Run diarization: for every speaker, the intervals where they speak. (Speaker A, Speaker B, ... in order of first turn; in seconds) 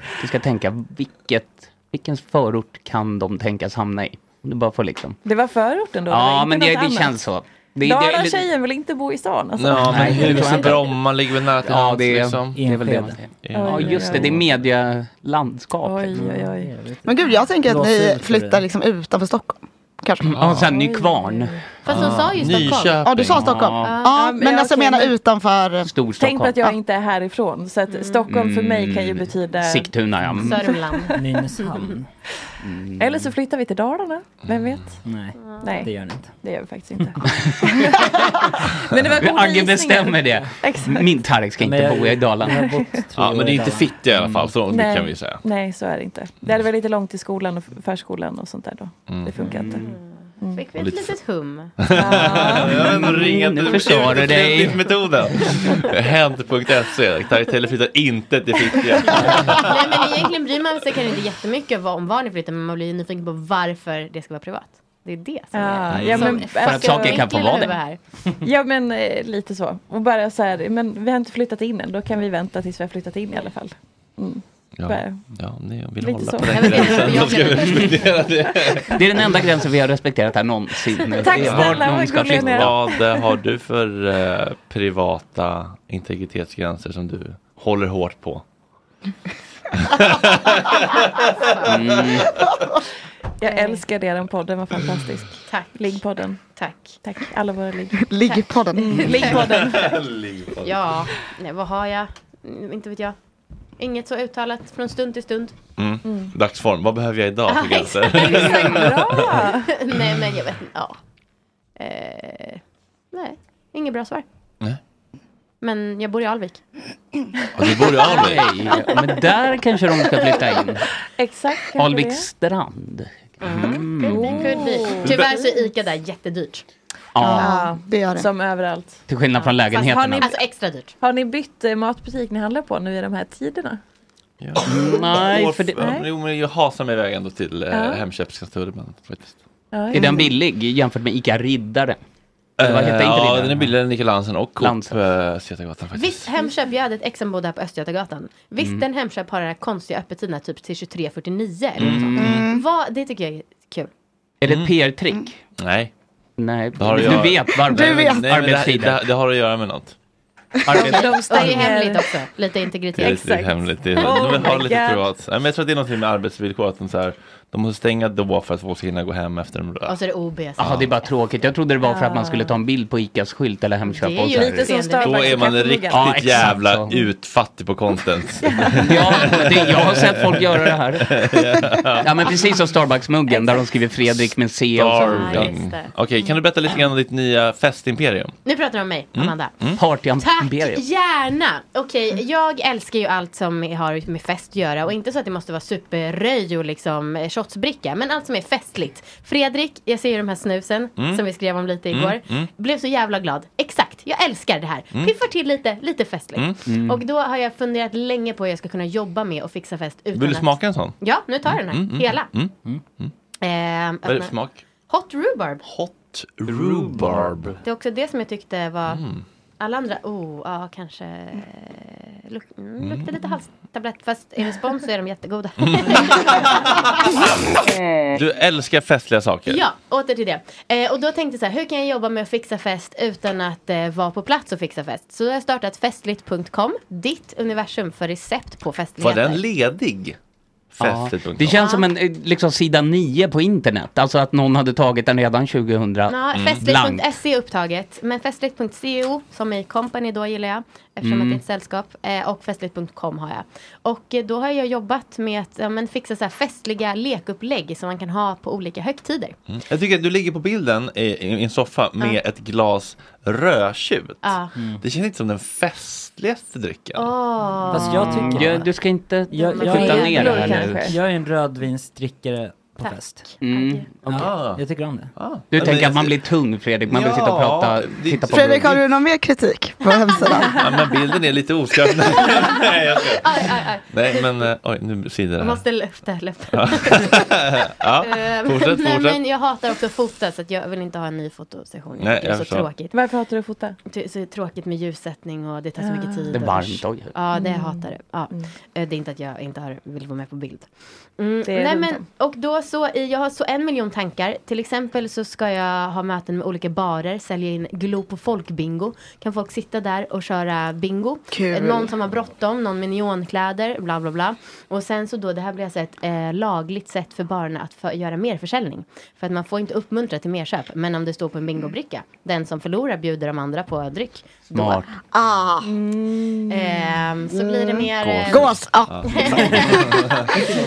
Speaker A: 0.2-5.2, 6.1-8.5, 9.7-11.0, 11.6-16.3, 20.3-22.0, 23.3-23.9, 25.9-26.6, 28.3-30.8, 32.6-33.3, 37.2-37.5, 39.1-42.6, 44.2-44.5, 49.4-49.9, 52.0-55.1, 66.2-67.8, 77.6-78.0, 78.9-82.9, 91.6-92.3, 118.1-120.8, 121.8-124.8, 127.2-127.7, 129.1-130.4, 134.6-135.9, 139.9-142.0, 142.6-143.7, 144.6-144.9, 151.8-152.4, 154.4-155.4, 156.4-159.0, 160.7-161.7, 170.6-174.9, 175.9-177.0, 178.8-181.2, 182.0-185.5, 189.8-190.8, 206.7-207.0, 240.8-247.1, 251.0-251.4, 267.9-271.0, 273.4-274.3, 275.5-278.8, 296.3-297.2, 324.5-324.9
Speaker B: 5.2-7.2, 7.8-10.7, 13.5-14.4, 15.8-16.7, 20.7-21.6, 24.1-25.1, 26.2-29.9, 30.5-31.0, 33.0-35.0, 35.6-35.9, 36.4-37.8, 38.7-41.1, 42.5-43.0, 44.7-49.9, 50.4-50.6, 51.9-52.6, 65.5-67.3, 68.4-75.2, 76.0-76.5, 81.2-83.2, 93.4-96.4, 97.0-100.0, 106.0-106.3, 108.4-109.7, 121.2-122.3, 124.1-125.5, 127.4-129.1, 129.7-130.4, 131.0-133.8, 135.8-136.1, 137.7-138.0, 139.7-140.3, 160.8-162.1, 163.0-165.1, 171.8-172.5, 174.3-176.3, 178.4-178.9, 269.7-271.0, 292.9-293.8, 295.8-296.2, 297.3-298.5, 301.5-302.0, 325.6-326.7
Speaker C: 9.6-12.6, 13.4-14.3, 20.4-20.7, 21.9-23.5, 34.4-34.9, 43.2-45.4, 49.1-49.6, 50.8-51.1, 51.8-60.1, 65.9-66.4, 74.8-79.0, 81.3-88.4, 89.9-91.2, 99.6-100.8, 105.8-109.6, 117.6-118.5, 125.0-125.3, 134.4-139.4, 142.6-146.3, 151.8-152.2, 154.4-154.8, 155.6-155.9, 156.8-159.9, 160.8-161.5, 163.0-170.0, 170.6-170.9, 175.0-182.3, 184.7-188.4, 189.1-189.8, 201.0-201.2, 201.9-202.5, 206.3-206.7, 210.2-213.1, 214.0-214.6, 215.6-217.6, 218.9-219.2, 222.8-223.1, 225.6-227.3, 228.1-229.6, 239.0-240.2, 240.7-241.7, 246.3-246.7, 259.5-267.1, 274.1-274.6, 275.1-276.2, 276.9-278.5, 280.5-283.3, 283.9-285.6, 286.5-289.2, 292.0-292.7, 328.9-330.3
Speaker D: 12.6-14.6, 16.2-18.6, 31.1-32.1, 35.0-36.3, 41.6-43.9, 216.5-217.5, 264.6-264.8, 267.7-268.7, 269.3-273.4, 274.1-275.1
Speaker E: 17.1-20.4, 23.0-25.9, 98.0-99.5, 127.2-128.3, 152.2-152.6, 157.7-158.2, 160.6-161.0, 278.3-280.6, 311.3-311.9, 325.1-325.7, 327.3-330.4
Speaker F: 21.8-23.1, 23.8-24.2, 27.9-28.4, 30.3-31.9, 35.4-35.9, 49.6-52.4, 59.1-68.0, 76.5-77.9, 91.4-91.7, 93.4-93.8, 95.5-96.0, 96.5-97.0, 99.0-99.5, 100.6-103.2, 103.8-105.6, 107.5-108.8, 109.7-111.0, 111.8-114.2, 115.6-116.7, 118.3-119.1, 123.4-126.6, 129.3-130.9, 145.9-153.9, 160.7-163.3, 164.1-164.6, 169.9-171.1, 173.8-175.6, 183.3-183.7, 185.0-185.9, 188.4-212.3, 213.4-214.3, 214.9-215.6, 217.6-219.1, 219.6-226.8, 229.5-239.4, 241.5-241.9, 246.1-259.4, 264.2-264.6, 267.0-268.5, 269.3-270.7, 272.8-273.9, 282.1-284.5, 285.4-287.3, 288.0-293.0, 293.9-324.8, 326.5-329.9